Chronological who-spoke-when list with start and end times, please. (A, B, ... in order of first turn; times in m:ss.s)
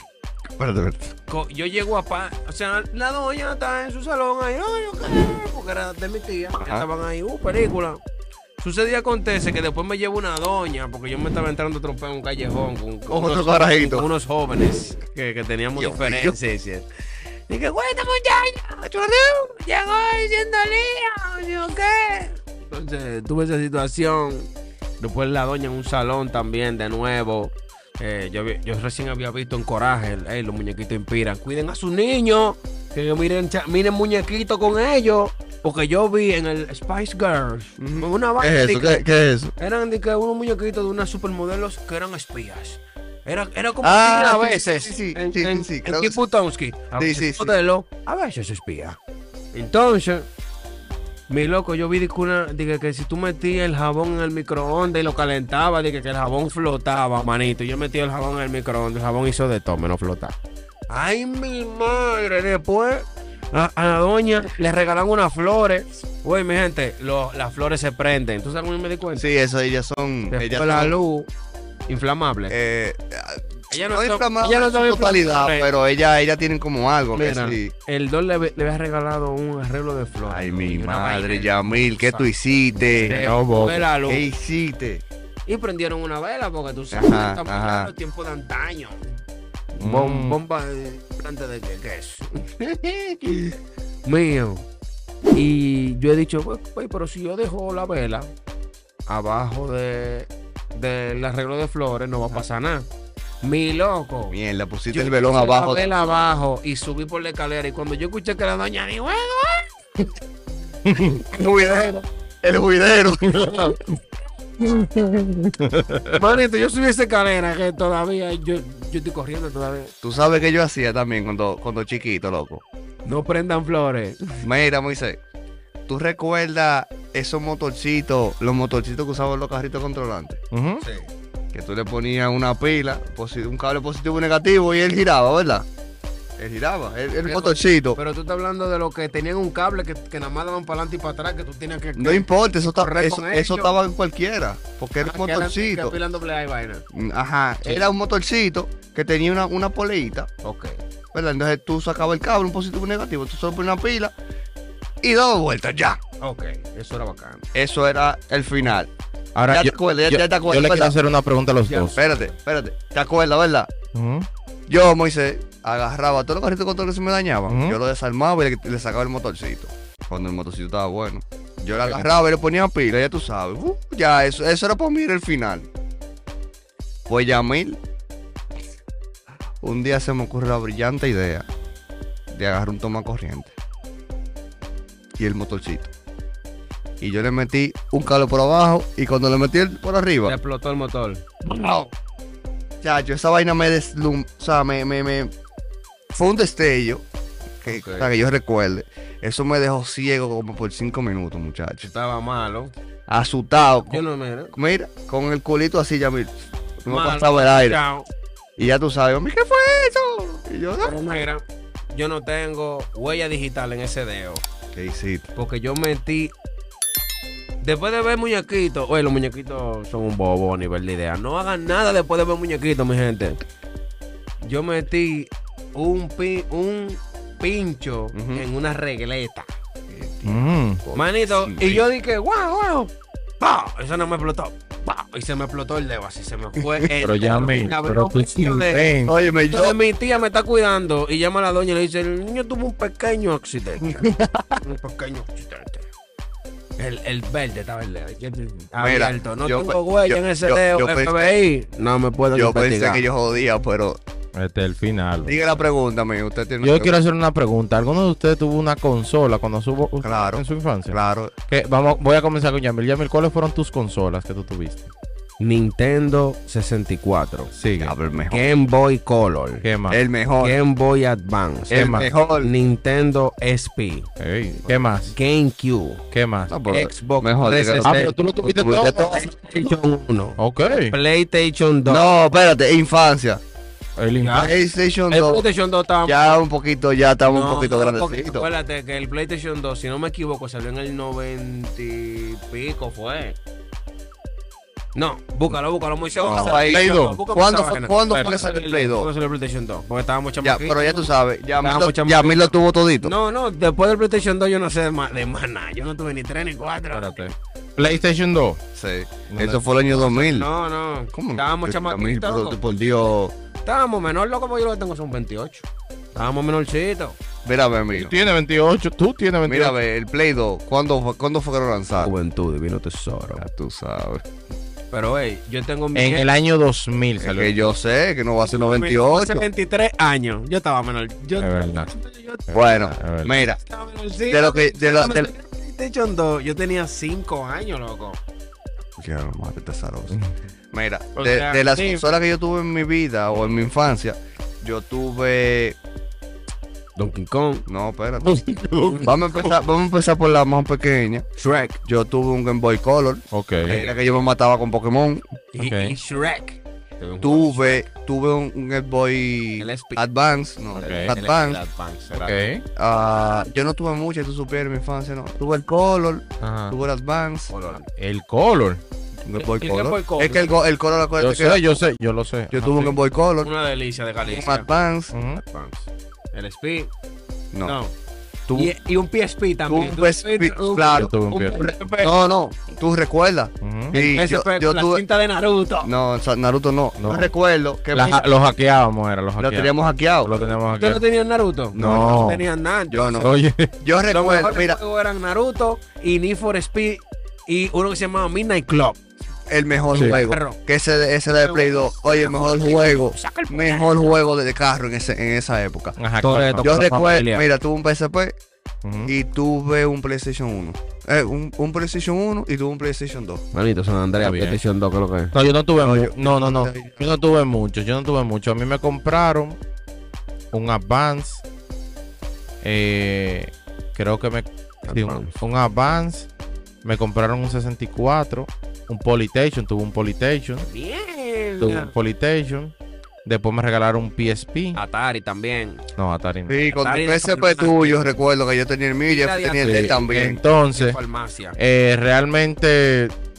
0:00.6-0:01.1 A
0:01.3-0:08.0 B
0:06.6-0:06.9 A
0:08.6-0:16.8 B
0:13.1-0:14.1 A
0:15.8-0:16.3 A
0:17.5-0:39.0 B
0:18.9-0:19.4 A
0:37.8-0:39.5 A
0:39.6-0:49.0 B
0:43.8-0:46.2 A
0:47.0-0:47.5 A
0:49.5-0:50.3 B
0:51.3-1:00.4 B
1:00.9-1:09.2 B
1:09.2-1:11.0 A
1:10.3-1:11.3 B
1:11.9-1:12.6 B
1:12.5-1:17.7 A
1:13.7-1:15.7 B
1:17.1-1:22.3 B
1:20.3-1:23.2 A
1:23.0-1:24.3 B
1:23.1-1:23.9 C
1:24.0-1:25.0 A
1:25.5-1:29.1 B
1:26.9-1:27.9 A
1:29.7-1:32.6 B
1:29.8-1:30.4 C
1:32.7-1:33.3 A
1:34.0-1:34.7 B
1:35.3-1:38.3 B
1:39.1-1:42.9 B
1:43.4-1:44.4 B
1:44.3-1:45.8 A
1:44.9-1:49.7 B
1:50.9-1:51.2 C
1:50.9-1:53.8 A
1:53.2-1:53.8 C
1:54.7-1:56.2 C
1:56.1-1:59.9 B
2:00.0-2:02.6 A
2:03.0-2:04.4 B
2:04.4-2:05.2 A
2:05.9-2:10.4 A
2:10.5-2:10.8 C
2:10.8-2:11.1 B
2:11.5-2:15.7 A
2:16.4-2:18.0 A
2:17.2-2:23.7 B
2:22.0-2:26.0 A
2:25.0-2:26.8 B
2:26.9-2:30.3 A
2:30.4-2:30.8 B
2:31.1-2:34.1 A
2:35.0-2:36.0 A
2:36.2-2:37.4 B
2:37.5-2:38.9 A
2:39.3-2:42.0 C
2:39.5-2:40.9 A
2:41.7-2:42.3 B
2:42.0-2:43.7 A
2:43.9-2:44.3 C
2:44.7-2:55.7 A
2:47.5-2:47.8 C
2:57.1-2:57.8 A
2:59.6-3:01.4 A
3:02.3-3:03.5 A
3:05.2-3:05.9 A
3:07.0-3:10.3 A
3:10.2-3:11.2 B
3:11.4-3:11.9 A
3:12.8-3:15.3 A
3:16.1-3:17.0 A
3:17.6-3:21.8 A
3:17.6-3:18.1 B
3:21.8-3:22.7 B
3:23.1-3:27.8 A
3:23.8-3:24.6 B
3:26.9-3:28.1 B
3:28.6-3:31.0 A
3:30.8-3:34.4 B
3:34.7-3:35.3 A
3:35.4-3:36.3 B
3:37.6-3:43.4 B
3:44.4-3:49.5 B
3:48.1-3:48.4 A
3:49.9-3:51.8 A
3:50.2-3:50.8 C
3:50.9-3:58.9 B
3:56.6-3:56.9 A
3:57.0-3:59.1 C
3:59.0-3:59.8 A
3:59.5-4:04.0 B
4:03.8-4:04.6 A
4:04.6-4:05.9 B
4:06.8-4:13.0 B
4:08.8-4:11.2 A
4:12.3-4:14.0 A
4:14.3-4:15.4 C
4:15.2-4:16.9 A
4:16.6-4:24.9 C
4:20.0-4:21.3 A
4:25.4-4:27.5 B
4:27.6-4:28.0 C
4:27.8-4:28.5 A
4:28.3-4:29.6 B
4:29.6-4:30.0 C
4:29.9-4:30.6 A
4:30.4-4:34.1 B
4:31.7-4:32.1 C
4:31.7-4:32.5 A
4:34.2-4:35.1 C
4:34.6-4:36.0 B
4:36.1-4:36.5 C
4:36.5-4:39.3 A
4:36.7-4:38.1 B
4:37.8-4:39.2 C
4:39.1-4:42.0 B
4:40.4-4:40.9 C
4:41.8-4:43.4 A
4:44.0-4:44.5 C
4:44.2-4:44.5 B
4:44.3-4:45.4 A
4:45.1-4:46.3 B
4:46.0-4:48.5 A
4:47.2-4:53.4 B
4:54.9-5:07.3 B
4:56.2-4:59.1 A
4:56.3-4:57.2 C
5:00.4-5:03.1 A
5:06.9-5:08.6 C
5:08.7-5:10.5 A
5:09.3-5:09.6 C
5:09.9-5:12.6 B
5:11.1-5:13.3 A
5:13.6-5:17.2 B
5:17.4-5:18.2 A
5:17.9-5:19.7 C
5:19.4-5:22.1 A
5:22.0-5:23.4 B
5:23.4-5:24.2 A
5:24.9-5:26.2 B
5:25.9-5:27.7 C
5:27.2-5:29.4 A
5:28.5-5:32.5 B
5:31.4-5:31.9 C
5:32.5-5:33.6 A
5:32.5-5:33.4 C
5:33.6-5:38.2 B
5:34.3-5:35.3 A
5:39.0-5:40.2 A
5:40.7-5:45.8 A
5:41.1-5:42.1 B
5:47.0-5:47.6 B
5:47.7-5:48.3 A
5:48.3-5:49.1 C
5:48.9-5:51.2 A
5:51.4-5:51.8 B
5:51.8-5:55.2 A
5:53.3-5:53.8 C
5:53.6-5:54.2 B
5:55.5-5:57.9 B
5:55.6-5:55.9 C
5:57.2-6:01.6 A
5:59.6-6:00.0 B
6:00.7-6:01.1 C
6:00.8-6:02.4 B
6:02.1-6:07.5 A
6:02.2-6:02.6 C
6:06.4-6:06.8 C
6:07.5-6:07.9 B
6:08.0-6:08.8 C
6:09.2-6:11.6 A
6:09.3-6:10.5 B
6:11.2-6:13.0 C
6:12.5-6:13.5 A
6:13.4-6:14.7 B
6:14.2-6:15.1 A
6:15.1-6:15.4 C
6:15.4-6:16.9 B
6:17.5-6:17.8 A
6:17.6-6:17.9 B
6:18.5-6:22.1 B
6:19.7-6:21.1 A
6:20.9-6:21.8 C
6:22.0-6:25.0 A
6:23.6-6:24.0 C
6:23.9-6:25.9 B
6:25.8-6:28.2 A
6:27.0-6:27.3 C
6:27.9-6:31.0 C
6:29.4-6:30.3 A
6:30.7-6:33.3 B
6:31.7-6:32.2 A
6:31.8-6:32.4 C
6:32.9-6:33.3 A
6:33.2-6:33.7 C
6:33.8-6:34.8 A
6:34.1-6:39.0 B
6:39.5-6:46.0 A
6:39.9-6:40.6 B
6:39.9-6:40.2 C
6:41.4-6:44.1 B
6:46.0-6:47.1 C
6:46.2-6:47.4 B
6:46.6-6:48.4 A
6:48.8-6:49.1 C
6:49.0-6:53.4 A
6:53.5-6:55.3 B
6:54.2-6:54.6 C
6:55.3-6:59.6 C
6:55.8-6:57.0 A
7:00.5-7:01.4 C
7:02.6-7:06.3 C
7:04.8-7:05.4 B
7:06.8-7:10.7 C
7:10.6-7:11.9 B
7:11.6-7:12.7 C
7:13.2-7:14.8 C
7:14.7-7:15.8 B
7:16.0-7:16.5 C
7:16.5-7:20.4 A
7:16.7-7:18.0 B
7:19.1-7:20.0 B
7:19.6-7:21.0 C
7:20.7-7:21.6 B
7:21.6-7:23.1 C